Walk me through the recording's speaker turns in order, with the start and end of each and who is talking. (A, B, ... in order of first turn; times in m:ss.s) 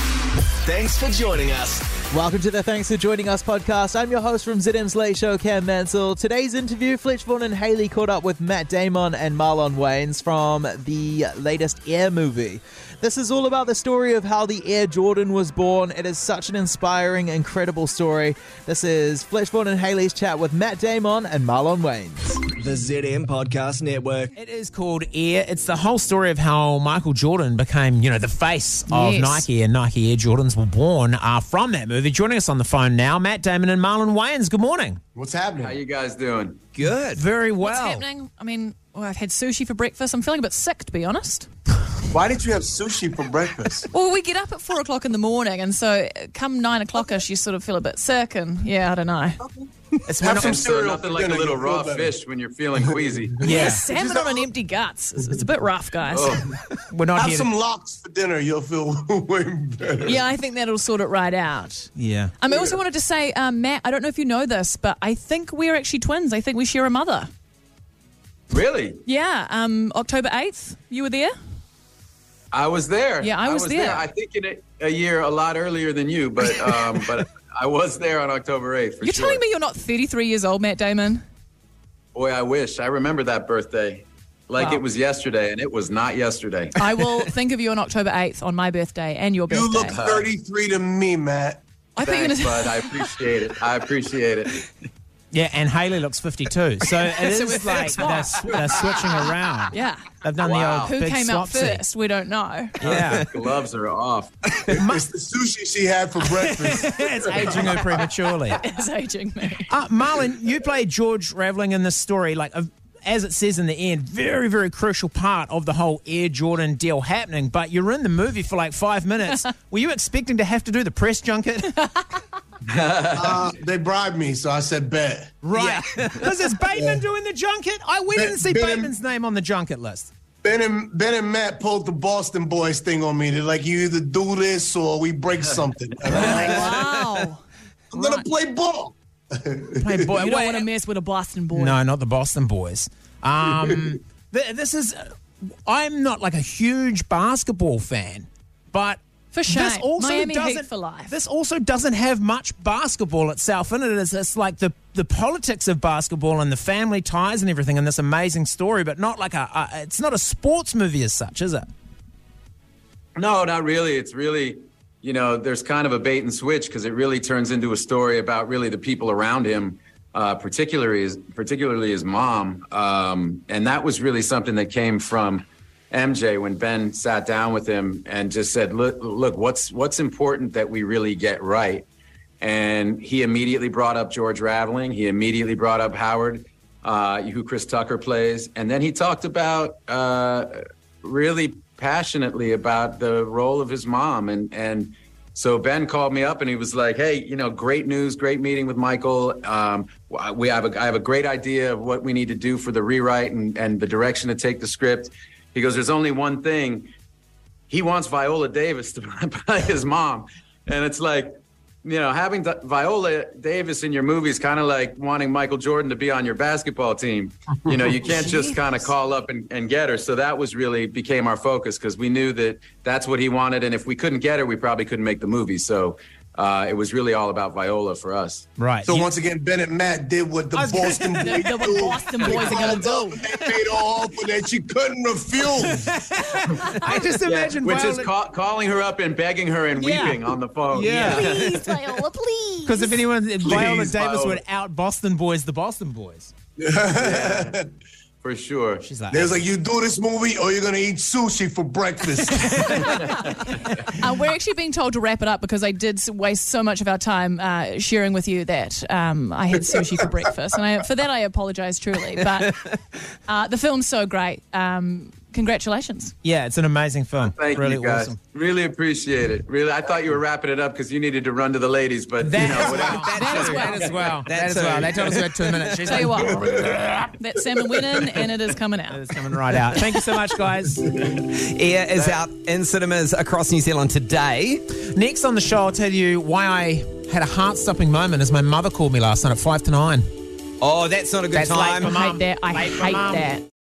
0:00.6-0:02.0 A
0:02.1-0:22.4 B
0:22.6-0:24.3 A
0:24.4-0:35.0 C
0:28.9-0:29.5 D
0:35.1-0:35.8 E
0:35.6-0:36.6 F
0:36.8-0:37.2 G
0:37.1-0:38.0 C
0:37.6-0:41.5 D
0:42.1-0:43.8 E
0:43.9-0:49.4 D
0:50.1-0:50.6 C
0:50.2-0:52.1 E
0:50.2-0:53.4 F
0:52.7-0:54.5 E
0:53.4-0:56.5 D
0:53.4-0:53.8 C
0:56.1-0:56.4 F
0:56.8-0:57.5 C
0:57.1-1:00.2 E
1:00.0-1:07.3 D
1:02.0-1:02.3 C
1:02.5-1:02.8 E
1:08.5-1:09.0 F
1:09.0-1:11.3 D
1:12.5-1:19.4 F
1:13.2-1:14.1 D
1:19.0-1:21.2 D
1:22.1-1:26.8 F
1:24.6-1:24.8 D
1:26.8-1:30.0 D
1:29.5-1:31.6 E
1:29.9-1:30.3 F
1:31.9-1:33.1 D
1:32.0-1:34.7 F
1:35.3-1:41.8 C
1:37.0-1:40.1 D
1:40.4-1:41.0 F
1:40.8-1:42.8 D
1:42.8-1:43.4 C
1:42.8-1:44.3 F
1:44.7-1:48.0 E
1:44.7-1:45.0 C
1:46.4-1:48.6 C
1:48.5-1:49.7 D
1:49.7-2:02.0 C
2:02.7-2:03.4 F
2:03.1-2:05.8 E
2:05.4-2:10.1 C
2:06.7-2:07.0 E
2:08.1-2:08.9 E
2:10.4-2:16.9 E
2:16.1-2:16.8 C
2:16.1-2:17.4 D
2:17.9-2:20.1 E
2:18.0-2:18.2 D
2:19.8-2:20.7 C
2:20.1-2:21.8 D
2:21.5-2:25.0 C
2:25.6-2:41.7 C
2:29.3-2:31.1 D
2:43.2-3:01.8 F
3:02.4-3:26.9 F
3:27.7-3:31.3 F
3:31.8-3:48.5 F
3:48.6-3:49.0 C
3:48.8-3:55.9 E
3:50.5-3:51.4 C
3:51.2-3:53.2 D
3:55.5-3:58.1 C
3:56.6-4:01.5 F
3:59.7-4:00.1 D
4:00.7-4:01.6 C
4:01.0-4:03.0 D
4:02.6-4:06.3 C
4:03.4-4:04.4 F
4:06.6-4:07.6 E
4:06.9-4:07.6 F
4:08.2-4:08.8 F
4:08.8-4:09.4 C
4:09.1-4:13.0 E
4:12.6-4:12.9 D
4:14.0-4:22.6 D
4:19.7-4:20.0 E
4:23.3-4:26.1 D
4:26.2-4:28.2 C
4:27.2-4:34.3 F
4:32.2-4:37.0 C
4:32.6-4:32.9 E
4:33.2-4:33.8 D
4:34.3-4:35.8 G
4:35.8-4:36.4 D
4:36.3-4:36.8 E
4:37.1-4:39.0 D
4:38.9-4:40.9 C
4:41.3-4:44.6 G
4:44.8-4:50.0 C
4:50.6-4:52.0 G
4:51.3-4:53.3 C
4:51.9-4:53.4 D